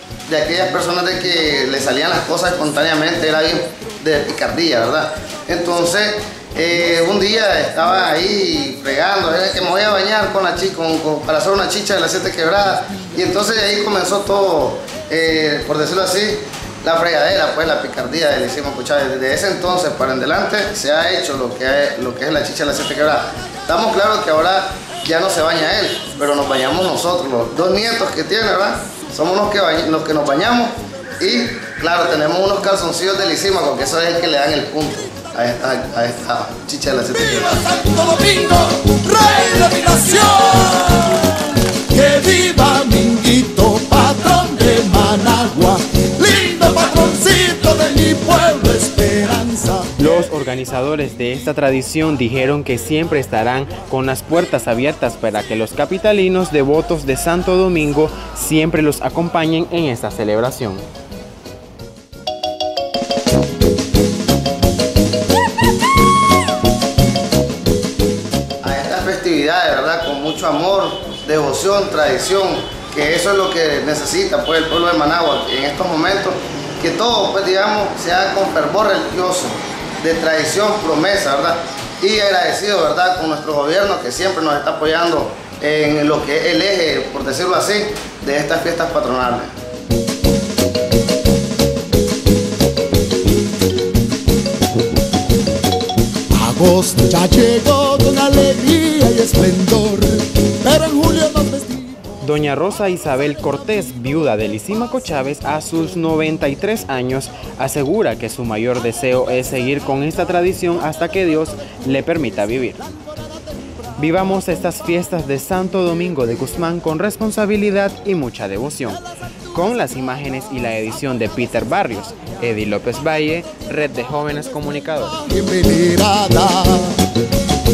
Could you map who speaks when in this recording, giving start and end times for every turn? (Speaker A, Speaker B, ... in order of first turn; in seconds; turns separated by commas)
Speaker A: 0.3-37.5, Speaker B: 37.1-50.1, Speaker C: 50.0-60.8, Speaker A: 68.6-89.5, Speaker B: 96.3-102.1, Speaker C: 102.2-112.8, Speaker C: 114.0-119.0, Speaker C: 119.5-125.2, Speaker B: 125.2-127.0